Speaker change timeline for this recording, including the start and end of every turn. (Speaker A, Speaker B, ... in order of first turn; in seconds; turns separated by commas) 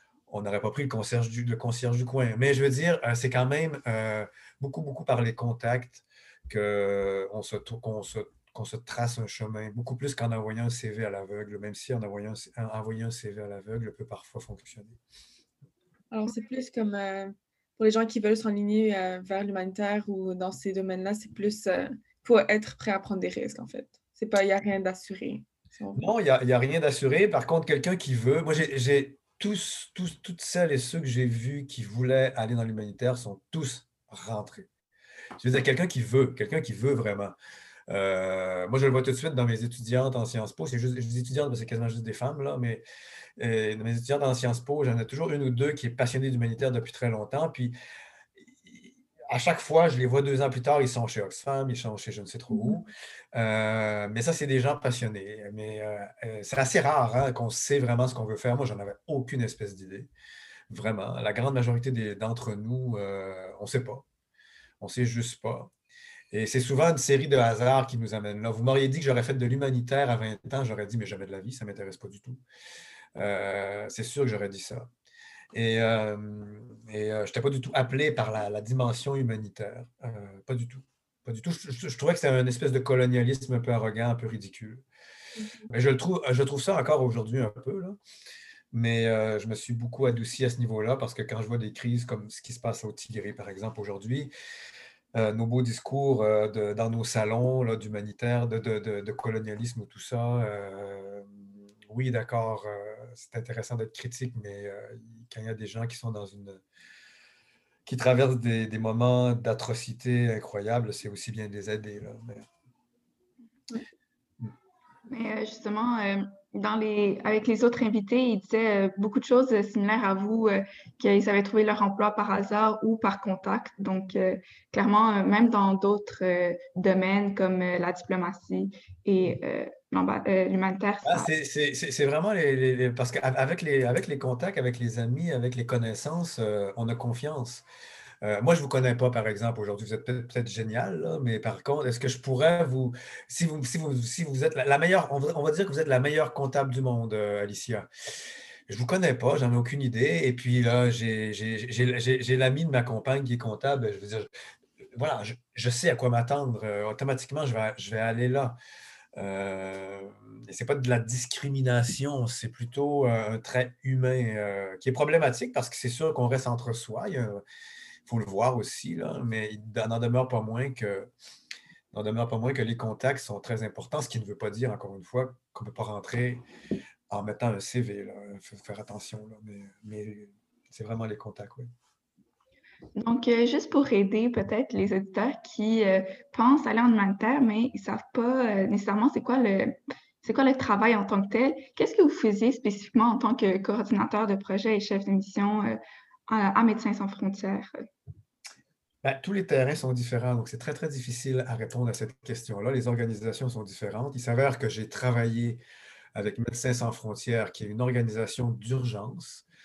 Speaker A: 0.3-15.0, Speaker B: 16.1-26.1, Speaker A: 25.9-34.7, Speaker A: 35.4-37.3, Speaker A: 37.9-42.8, Speaker A: 43.4-47.7, Speaker A: 48.6-60.1, Speaker B: 52.5-52.8, Speaker A: 60.7-64.0, Speaker A: 64.8-65.7, Speaker A: 66.3-72.4, Speaker A: 73.2-74.9, Speaker A: 75.5-84.8, Speaker B: 85.4-85.6, Speaker A: 85.7-88.0, Speaker A: 88.7-94.3, Speaker A: 95.1-101.3, Speaker A: 101.9-106.6, Speaker A: 107.8-112.5, Speaker C: 115.1-131.3, Speaker A: 131.0-137.6, Speaker A: 138.2-147.9, Speaker A: 148.7-154.3, Speaker A: 154.9-158.6, Speaker A: 159.2-167.4, Speaker A: 168.1-171.1, Speaker A: 171.9-176.4, Speaker A: 177.1-181.7, Speaker C: 183.0-197.8, Speaker A: 199.0-205.6, Speaker A: 206.1-209.4